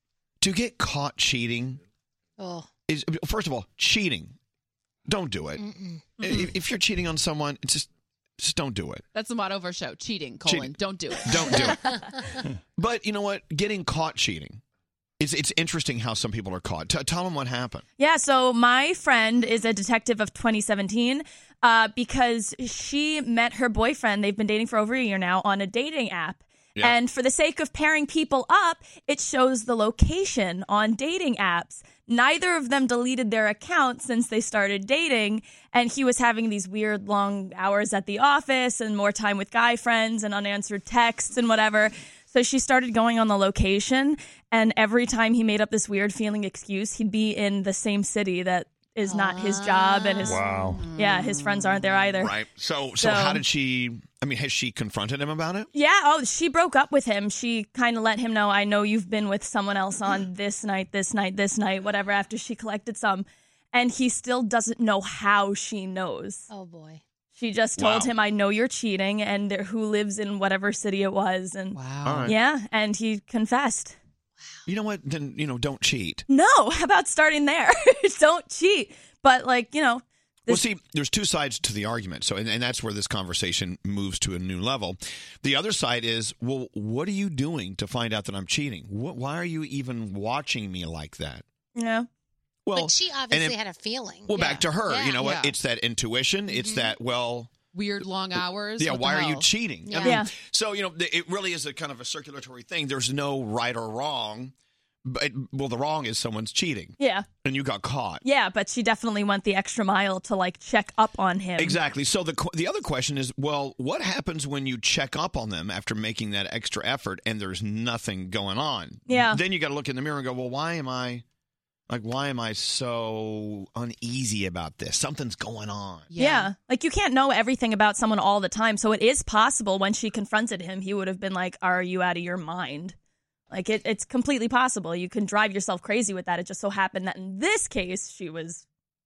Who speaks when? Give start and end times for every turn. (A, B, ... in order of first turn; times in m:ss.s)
0:00.4-0:01.8 A
0:02.4-0:02.7 B
0:02.9-0:04.3 A
0:05.1-0:05.6 A
0:05.6-0:06.0 B
0:06.2-0:07.9 A
0:08.4-0:09.0 A
0:09.1-0:12.0 C
0:10.4-0:12.0 A
0:12.8-0:14.6 A
0:15.2-0:17.8 A
0:18.0-0:52.4 D
0:49.1-0:50.2 B
0:50.2-0:52.1 C
0:52.2-0:55.7 A
0:53.0-0:53.4 D
0:55.7-1:06.5 D
1:06.5-1:07.0 B
1:07.4-1:14.0 D
1:07.8-1:08.1 A
1:11.7-1:12.3 C
1:12.0-1:12.4 A
1:14.6-1:16.2 A
1:16.3-1:20.7 D
1:20.5-1:31.4 A
1:31.7-1:32.1 D
1:32.6-1:33.6 A
1:32.8-1:35.2 B
1:34.2-1:37.5 A
1:35.2-1:35.5 C
1:37.7-1:39.5 C
1:38.8-1:44.5 A
1:39.9-1:40.2 B
1:40.0-1:40.3 D
1:45.0-1:48.2 A
1:47.0-1:47.3 D
1:48.2-1:51.8 D
1:51.6-2:01.2 A
1:59.1-1:59.4 D
2:01.9-2:06.1 A
2:06.1-2:06.5 C
2:06.2-2:12.9 D
2:13.5-2:18.6 D